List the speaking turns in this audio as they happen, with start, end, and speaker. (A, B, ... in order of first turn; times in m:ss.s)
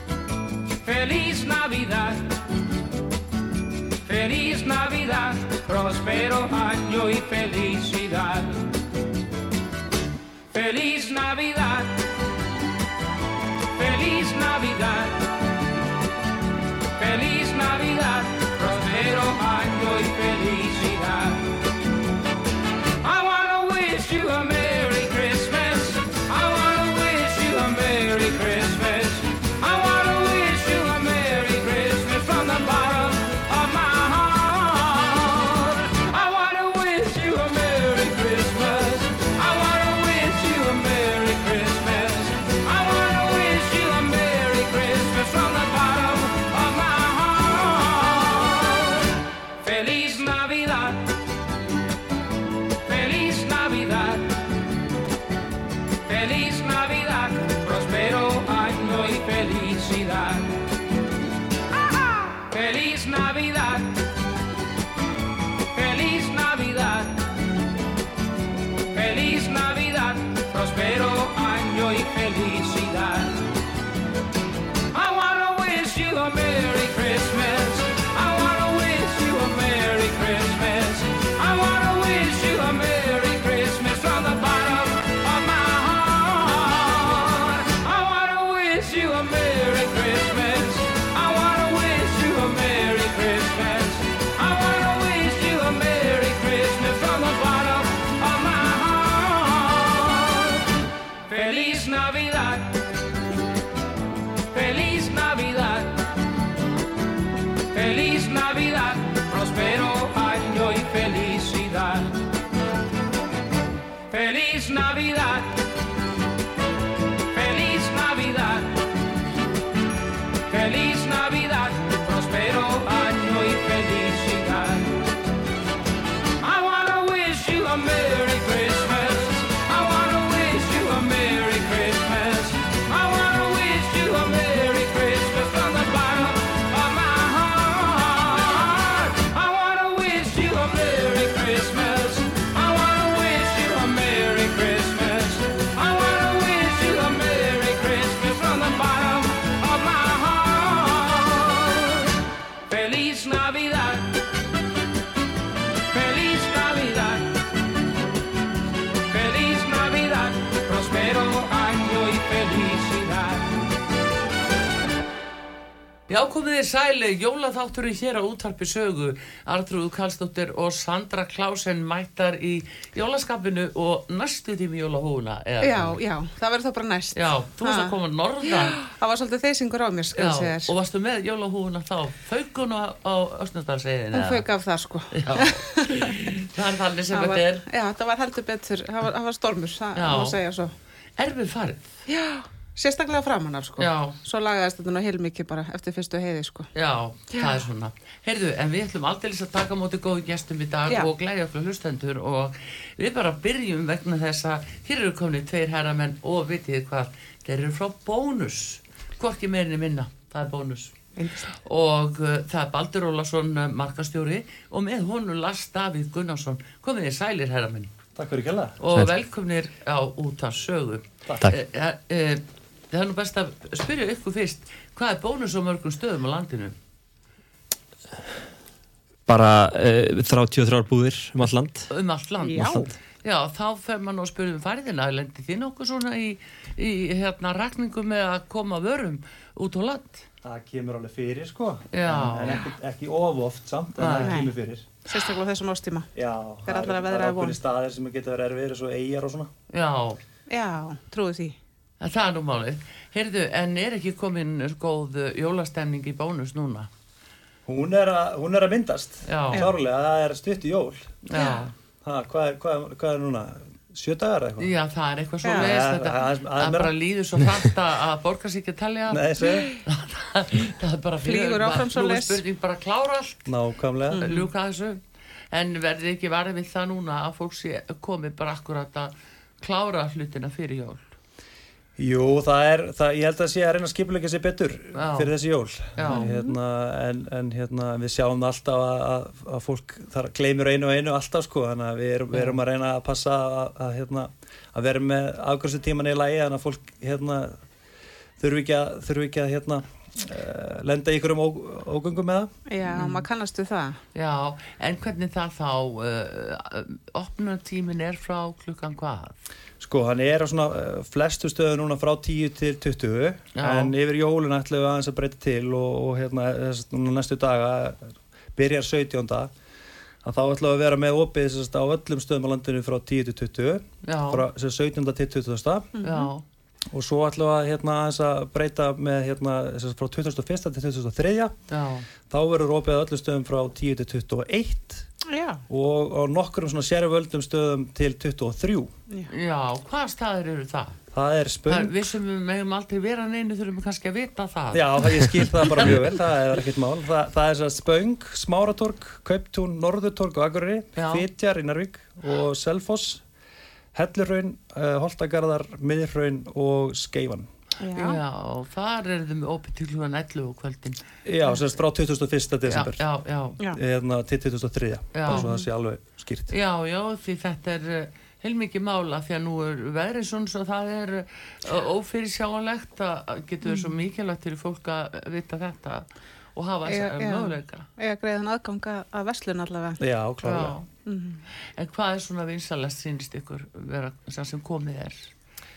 0:00.8-0:02.4 A
0:04.0-0:08.7 A
0:10.5-0:12.1 A
0:13.7-0:15.3 A
0:17.0-0:21.5 A
0:23.0-0:49.1 A
0:49.6-0:51.2 A
0:52.8-0:54.4 A
0:56.0-1:00.6 A
1:02.5-1:04.0 A
1:05.7-1:07.2 A
1:08.9-1:13.4 A
1:14.9-1:40.6 A
1:41.3-1:42.8 A
1:44.5-1:46.0 A
1:47.7-1:52.2 A
1:54.1-1:55.6 A
1:57.3-1:58.8 A
2:00.5-2:05.0 A
2:06.4-2:32.1 A
2:32.7-2:34.2 A
2:35.9-2:37.4 A
2:39.1-2:43.5 A
2:46.1-2:56.0 B
2:55.6-3:00.7 C
2:57.1-2:58.8 B
3:00.1-3:04.4 B
3:04.1-3:06.3 C
3:05.1-3:07.7 B
3:07.1-3:10.7 C
3:09.9-3:10.4 B
3:11.2-3:11.9 B
3:12.1-3:16.7 C
3:13.8-3:14.2 B
3:16.7-3:31.0 B
3:31.2-3:31.5 C
3:31.5-3:37.9 B
3:38.2-3:38.8 D
3:38.8-3:46.8 B
3:49.3-3:51.9 E
3:51.9-4:00.2 B
3:52.4-3:52.9 C
3:52.5-3:52.9 E
4:00.4-4:04.9 D
4:01.9-4:02.6 B
4:04.0-4:04.4 B
4:04.2-4:04.5 C
4:05.0-4:06.1 C
4:06.1-4:09.5 D
4:06.6-4:07.6 C
4:09.7-4:10.2 B
4:10.5-4:11.6 C
4:12.0-4:16.9 B
4:17.6-4:21.2 D
4:19.2-4:19.7 B
4:21.2-4:21.7 B
4:22.0-4:24.7 D
4:24.6-4:33.5 B
4:25.4-4:25.7 C
4:25.5-4:26.9 D
4:29.1-4:29.7 D
4:31.2-4:32.4 C
4:33.4-4:34.3 D
4:34.1-4:34.5 C
4:34.1-4:35.0 B
4:35.5-4:41.1 B
4:42.0-4:57.6 D
4:44.9-4:45.3 B
4:45.9-4:46.3 B
4:46.1-4:46.6 C
4:52.3-4:52.6 B
4:58.4-5:02.5 D
5:02.7-5:04.0 C
5:02.9-5:03.2 B
5:04.1-5:09.3 B
5:09.8-5:19.5 D
5:13.5-5:13.9 B
5:20.2-5:25.9 D
5:24.0-5:24.5 B
5:26.0-5:26.3 C
5:26.0-5:26.4 B
5:26.9-5:31.6 D
5:31.7-5:32.0 B
5:32.3-5:35.1 D
5:35.3-5:35.6 C
5:35.7-5:38.9 D
5:39.3-5:41.0 B
5:41.1-5:42.0 D
5:41.7-5:46.1 B
5:44.7-5:53.2 D
5:50.9-5:51.2 B
5:53.9-5:57.5 D
5:57.8-5:58.2 C
5:57.8-6:01.0 B
6:01.2-6:03.0 D
6:02.7-6:03.6 B
6:03.7-6:06.5 D
6:05.1-6:05.5 B
6:05.3-6:05.6 C
6:06.5-6:17.9 B
6:13.6-6:13.9 C
6:16.9-6:20.0 C
6:20.0-6:20.8 D
6:20.4-6:20.9 B
6:21.0-6:21.4 C
6:21.8-6:25.3 B